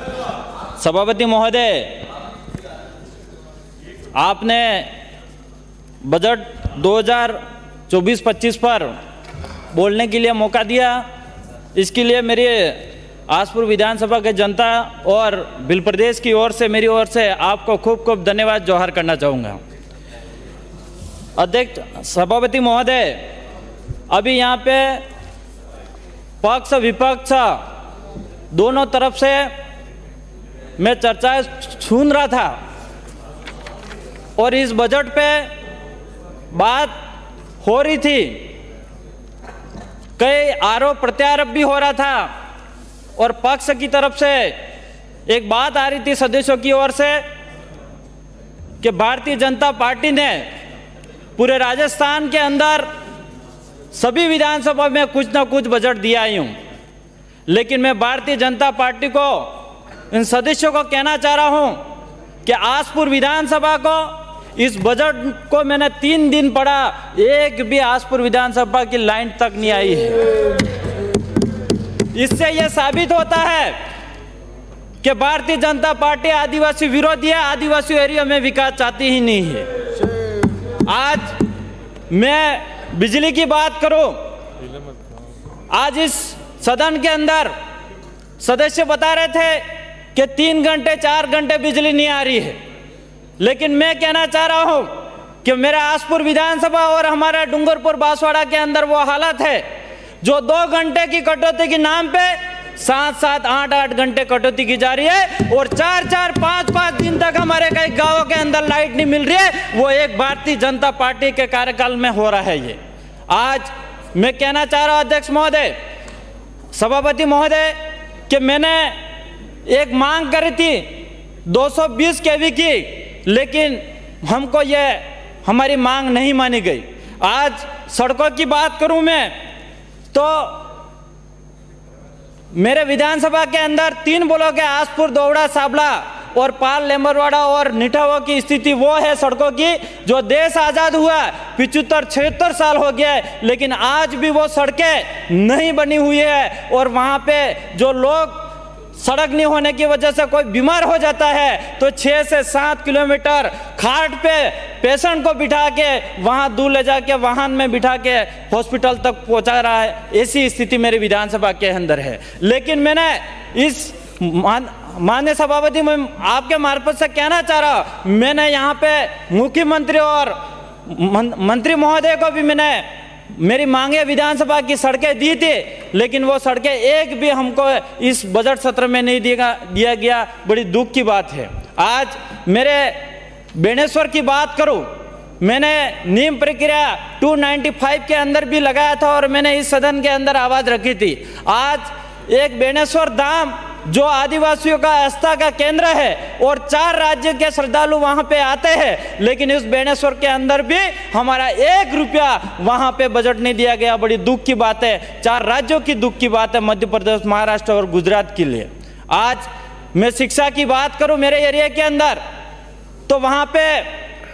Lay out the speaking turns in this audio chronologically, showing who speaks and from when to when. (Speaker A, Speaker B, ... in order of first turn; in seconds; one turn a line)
Speaker A: 0.8-2.0
Speaker A: 4.2-4.9
Speaker A: 6.0-8.9
Speaker A: 9.7-11.0
Speaker A: 11.7-19.6
Speaker A: 21.4-23.2
Speaker A: 24.1-25.0
Speaker A: 26.4-27.6
Speaker A: 28.5-29.5
Speaker A: 30.8-32.5
Speaker A: 34.4-35.5
Speaker A: 36.5-36.9
Speaker A: 37.6-38.5
Speaker A: 40.2-42.3
Speaker A: 43.2-44.6
Speaker A: 45.3-47.2
Speaker A: 48.8-50.5
Speaker A: 51.4-52.9
Speaker A: 53.9-56.5
Speaker A: 57.5-59.5
Speaker A: 60.1-61.8
Speaker A: 62.4-70.2
Speaker A: 72.1-73.8
Speaker A: 75.0-79.7
Speaker A: 80.8-81.3
Speaker A: 82.1-84.2
Speaker A: 85.7-87.5
Speaker A: 88.4-92.6
Speaker A: 93.4-94.9
Speaker A: 95.4-99.6
Speaker A: 100.2-112.8
Speaker A: 113.3-115.7
Speaker A: 116.7-117.8
Speaker A: 118.3-119.0
Speaker A: 119.7-120.9
Speaker A: 121.5-129.3
Speaker A: 130.1-130.7
Speaker A: 132.5-148.4
Speaker A: 148.9-183.0
Speaker A: 183.5-184.9
Speaker A: 185.4-212.2
Speaker A: 213.1-213.9